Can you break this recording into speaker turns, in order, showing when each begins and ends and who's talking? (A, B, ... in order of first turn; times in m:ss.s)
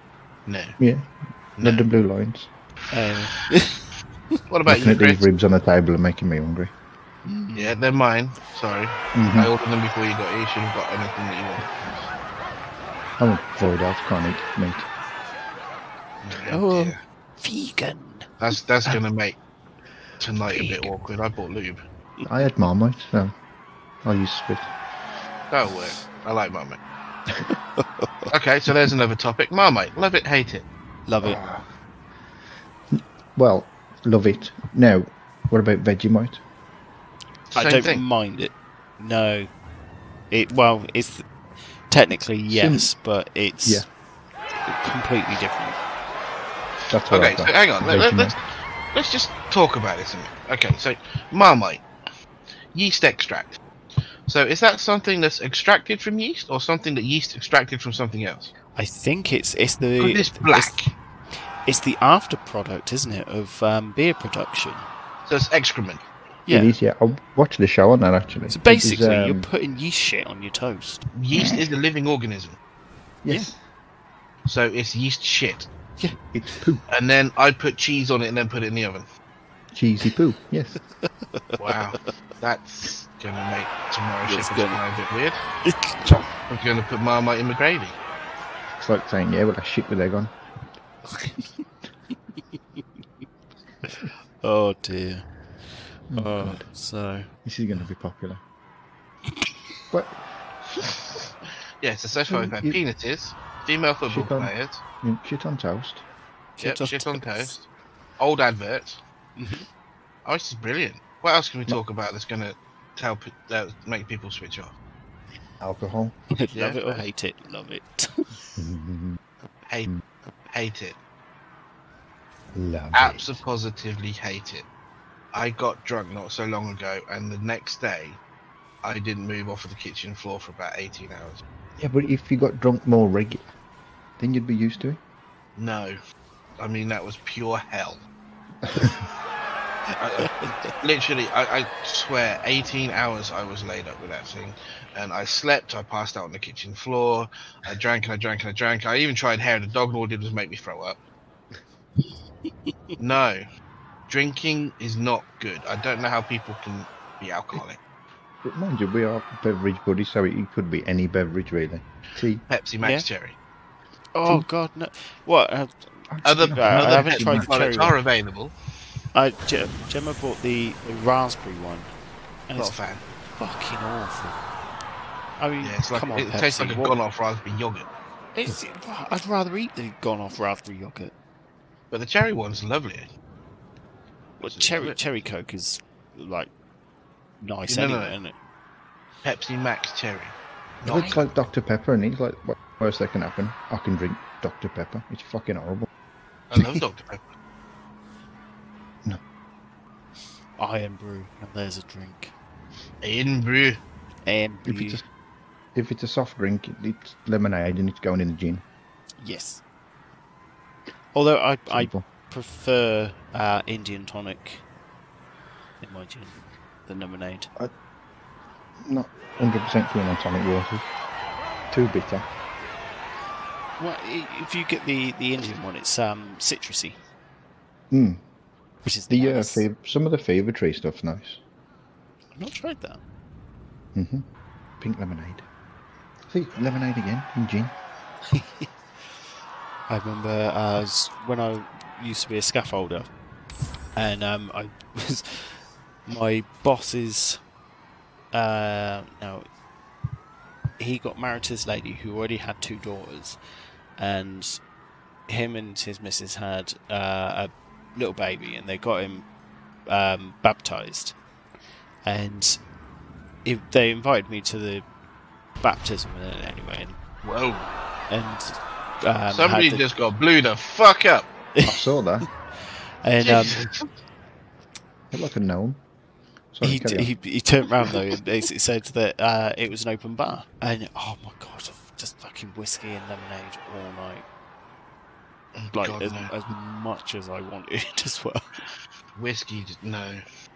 0:00.5-0:00.8 A
0:00.8-0:02.5 B
0:01.6-0:01.9 A
0:02.9-0:03.8 C
0:04.5-0:05.3 A
0:04.6-0:06.7 B
0:07.2-0:07.7 C
0:07.5-0:12.0 A
0:09.1-0:09.5 B
0:13.2-0:14.9 B
0:16.2-0:17.0 A
0:16.5-0:19.0 C
0:18.4-0:19.4 A
0:20.2-0:21.8 A
0:20.5-0:20.9 C
0:22.2-0:23.3 B
0:24.0-0:24.7 B
0:25.5-0:26.8 A
0:27.5-0:28.3 C
0:28.3-0:30.6 A
0:31.1-0:31.4 C
0:31.2-0:31.7 B
0:32.9-0:36.4 B
0:37.5-0:38.0 A
0:37.5-0:39.5 C
0:40.3-0:41.2 C
0:41.9-0:43.8 C
0:42.5-0:42.9 B
0:44.6-0:45.8 C
0:46.9-0:48.4 B
0:47.1-0:48.4 A
0:48.9-0:51.8 A
0:52.7-0:53.6 A
0:54.3-0:58.5 A
0:58.7-1:00.8 C
1:00.0-1:00.9 A
1:01.6-1:04.8 C
1:05.3-1:06.0 A
1:06.4-1:06.8 C
1:06.5-1:09.5 B
1:08.5-1:11.0 C
1:11.1-1:12.6 A
1:11.3-1:11.7 B
1:13.2-1:13.6 B
1:14.4-1:15.7 A
1:16.0-1:16.6 C
1:16.3-1:16.8 B
1:16.9-1:19.0 A
1:19.7-1:20.8 B
1:21.0-1:21.8 C
1:21.6-1:25.4 A
1:24.2-1:24.8 C
1:25.6-1:26.2 C
1:26.5-1:28.0 A
1:28.8-1:30.3 B
1:31.0-1:31.6 C
1:33.8-1:35.3 C
1:36.1-1:36.6 B
1:36.1-1:37.3 C
1:37.4-1:38.4 B
1:39.9-1:40.2 B
1:41.8-1:44.8 A
1:42.2-1:42.8 B
1:44.1-1:46.0 B
1:46.6-1:47.5 C
1:46.6-1:47.6 A
1:48.2-1:49.0 A
1:49.4-1:49.7 C
1:50.2-1:54.7 A
1:55.6-1:56.2 B
1:56.3-1:58.6 C
1:56.5-1:57.0 A
1:58.6-1:59.2 B
2:00.5-2:01.0 A
2:02.5-2:03.4 B
2:02.9-2:04.6 A
2:05.3-2:08.2 A
2:08.8-2:11.4 A
2:11.8-2:13.5 B
2:14.2-2:15.0 B
2:15.6-2:16.0 A
2:16.6-2:18.0 A
2:18.6-2:19.0 B
2:20.0-2:31.0 A
2:20.2-2:20.7 C
2:33.0-2:33.4 A
2:34.1-2:37.8 A
2:38.4-2:42.4 B
2:42.5-2:43.4 A
2:44.1-2:48.0 C
2:46.1-2:47.5 B
2:46.2-2:48.5 A
2:49.1-2:51.9 C
2:52.5-2:52.8 C
2:52.6-2:53.0 A
2:53.4-2:54.4 C
2:55.4-2:57.0 C
2:55.6-2:57.9 A
2:58.3-3:01.1 C
3:01.9-3:03.1 A
3:04.4-3:06.5 C
3:04.4-3:05.0 A
3:07.4-3:08.3 C
3:07.7-3:08.1 A
3:09.2-3:11.2 A
3:10.8-3:15.9 B
3:16.5-3:17.2 A
3:20.6-3:22.3 C
3:23.0-3:23.8 A
3:24.2-3:25.0 C
3:24.6-3:25.0 B
3:25.7-3:28.6 B
3:29.2-3:29.6 C
3:31.1-3:34.6 C
3:31.7-3:32.0 B
3:35.8-3:37.5 C
3:38.8-3:40.9 B
3:41.7-3:42.3 B
3:43.8-3:47.0 C
3:47.9-3:48.2 B
3:48.8-3:49.6 C
3:49.1-3:51.4 B
3:52.3-3:53.0 C
3:53.9-3:54.2 B
3:54.8-3:55.4 B
3:56.3-3:57.7 B
3:58.3-3:58.7 C
3:59.9-4:03.1 C
4:04.0-4:07.4 C
4:08.3-4:09.4 C
4:10.8-4:13.4 C
4:14.0-4:14.6 C
4:15.3-4:19.2 C
4:19.9-4:21.2 C
4:22.0-4:22.6 C
4:23.4-4:24.8 C
4:25.6-4:27.0 C
4:27.2-4:27.7 A
4:28.1-4:29.8 C
4:29.3-4:31.3 A
4:31.6-4:31.8 C
4:31.6-4:32.3 B
4:33.0-4:33.6 C
4:33.2-4:33.8 A
4:35.1-4:35.8 B
4:36.5-4:37.1 B
4:36.6-4:44.2 C
4:45.6-4:46.3 A
4:45.7-4:48.4 C
4:49.2-4:50.2 A